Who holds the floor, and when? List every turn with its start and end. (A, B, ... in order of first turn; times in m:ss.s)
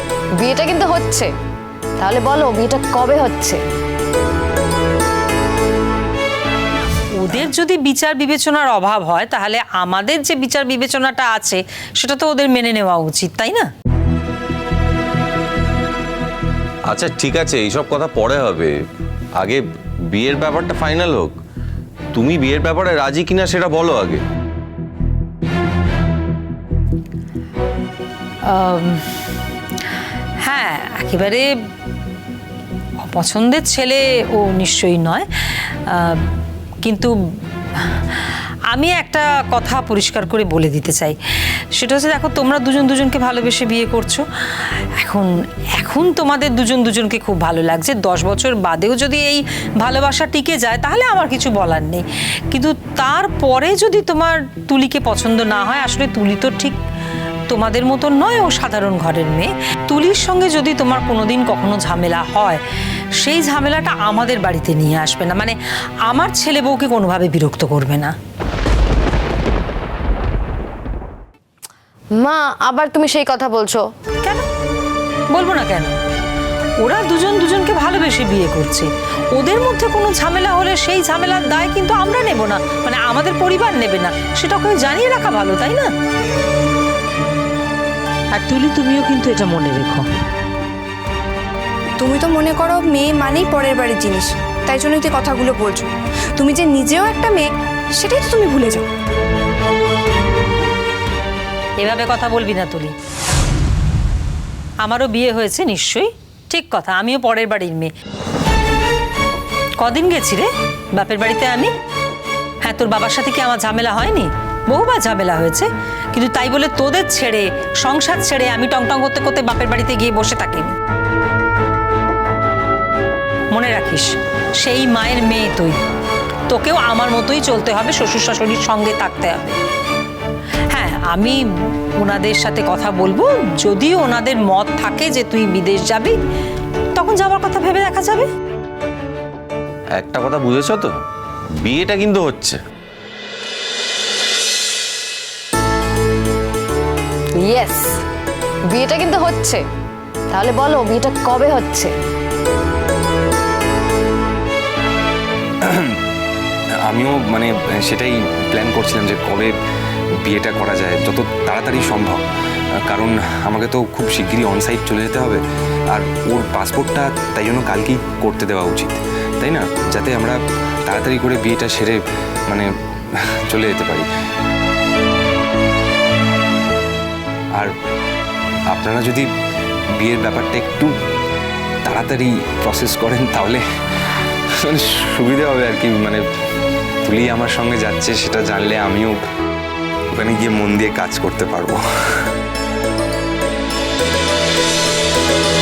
0:00.4-0:01.3 A
0:02.0-0:03.6 A
0:07.2-0:13.7 B
0:16.9-0:18.8 C
0:19.4-0:21.4 C
0:22.1-0:24.2 C
0:28.4-0:29.0 B
0:30.4-0:31.5 B
0:33.1-0:35.3 B
0:35.9-0:36.2 B
0:36.8-0:37.1 B
0:37.8-0:38.2 B
0:38.7-0:41.2 B
0:41.8-0:56.8 B
0:57.5-1:02.6 B
1:03.2-1:05.6 B
1:06.1-1:08.1 B
1:12.2-1:13.8 A
1:15.3-1:15.9 B
1:16.8-1:25.9 B
1:28.3-1:30.0 B
1:32.0-1:38.9 D
1:41.8-1:42.9 B
1:44.8-1:47.9 B
1:49.8-1:51.7 B
1:52.6-2:00.7 B
2:03.5-2:05.8 B
2:06.5-2:09.6 B
2:10.7-2:11.4 B
2:12.0-2:16.2 B
2:16.9-2:18.3 B
2:20.0-2:20.9 C
2:21.6-2:22.6 C
2:27.4-2:27.9 A
2:28.7-2:29.6 A
2:30.3-2:31.9 A
2:35.6-2:36.0 E
2:36.9-2:39.5 E
2:40.2-2:42.2 E
2:42.9-2:45.4 E
2:45.9-2:54.0 E
2:58.7-2:59.3 E
3:00.0-3:00.9 E
3:01.8-3:03.6 E
3:04.6-3:06.2 E
3:07.0-3:09.2 E
3:10.1-3:11.8 E